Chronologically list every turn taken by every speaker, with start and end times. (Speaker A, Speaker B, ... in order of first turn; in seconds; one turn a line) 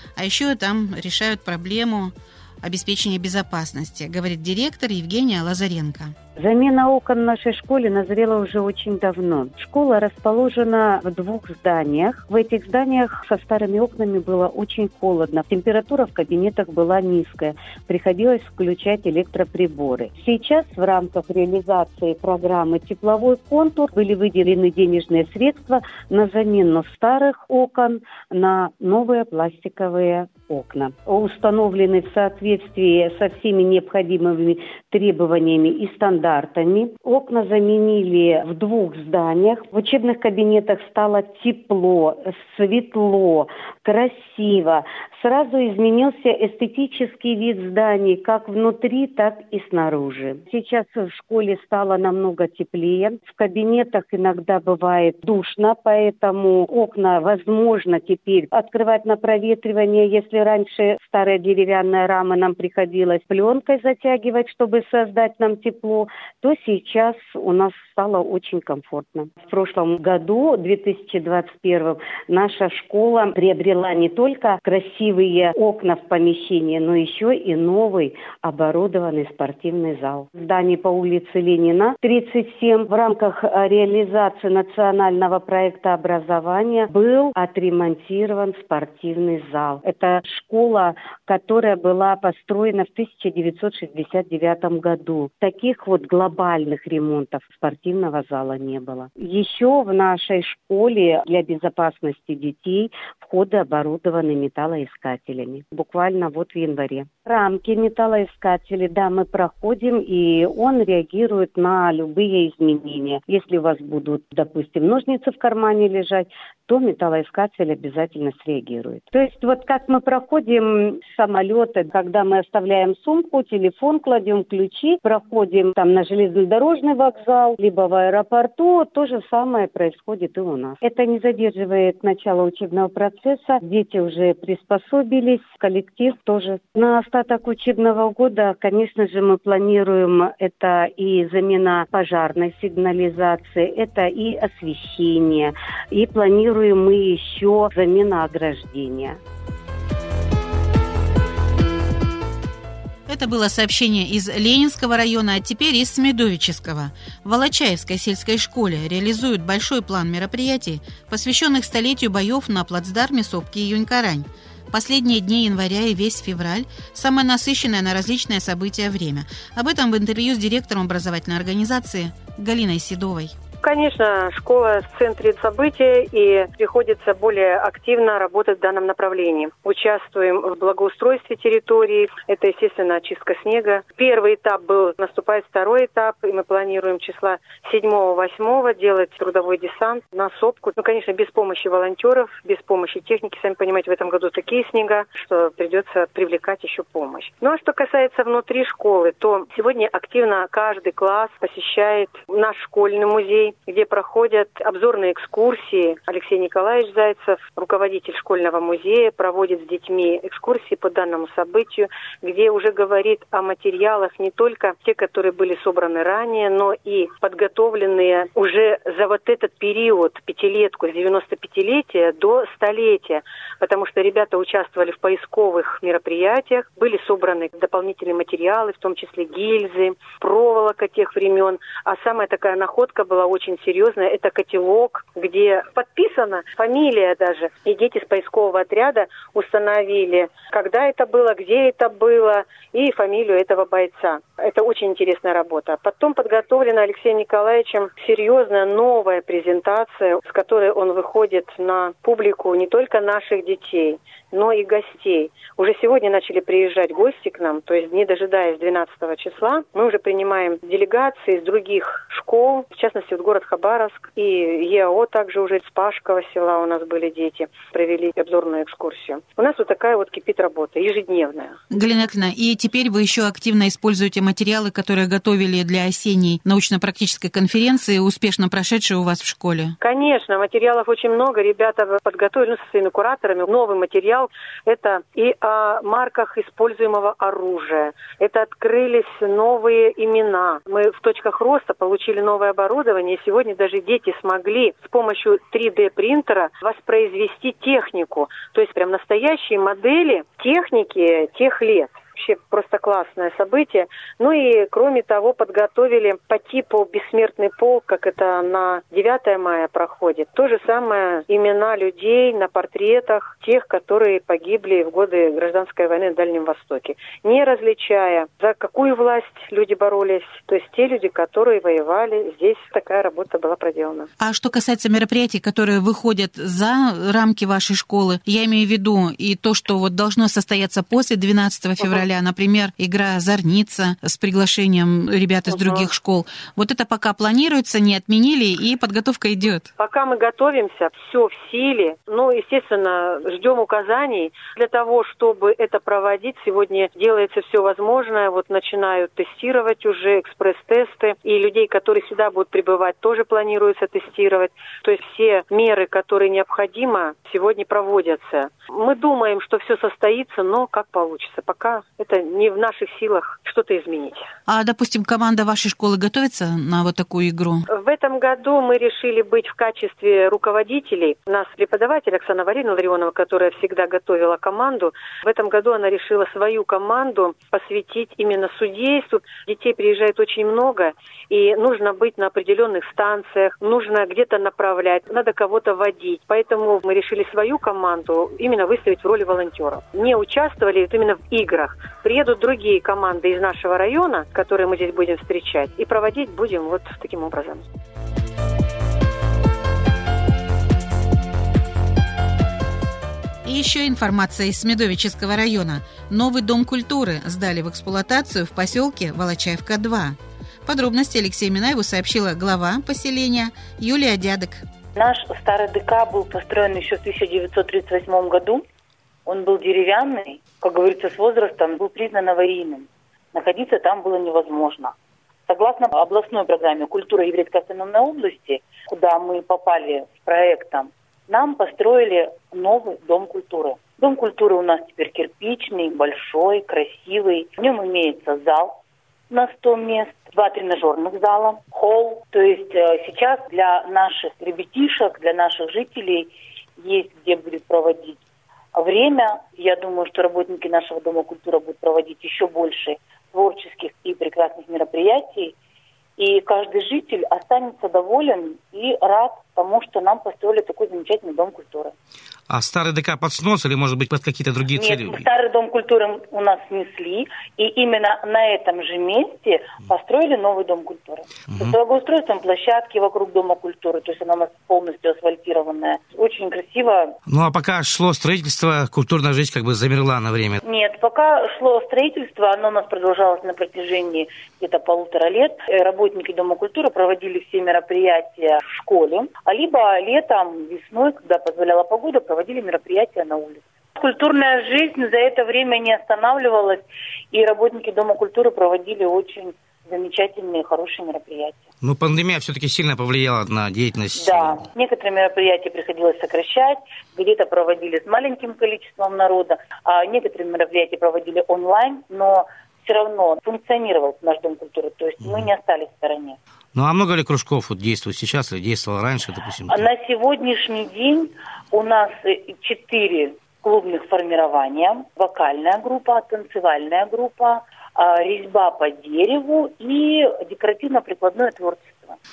Speaker A: 0.2-6.1
Speaker B: 6.4-149.2
Speaker A: 153.1-173.3
Speaker C: 173.6-271.6
Speaker A: 271.7-279.7
Speaker C: 279.8-324.1
Speaker A: 324.2-339.7
Speaker C: 335.5-335.9
Speaker C: 339.8-364.2
Speaker A: 364.5-367.6
Speaker C: 367.7-397.6
Speaker A: 403.4-414.6
Speaker D: 414.9-418.6
Speaker D: 419.2-424.9
Speaker D: 425.5-438.8
Speaker D: 439.3-446.3
Speaker D: 446.8-448.2
Speaker D: 448.7-455.5
Speaker D: 456.2-461.9
Speaker E: 462.5-465.3
Speaker D: 464.7-477.1
Speaker E: 471.5-471.7
Speaker E: 477.3-480.6
Speaker D: 480.6-501.7
Speaker E: 501.8-504.7
Speaker D: 504.1-516.4
Speaker E: 515.2-515.5
Speaker E: 516.7-519.9
Speaker D: 519.7-532.2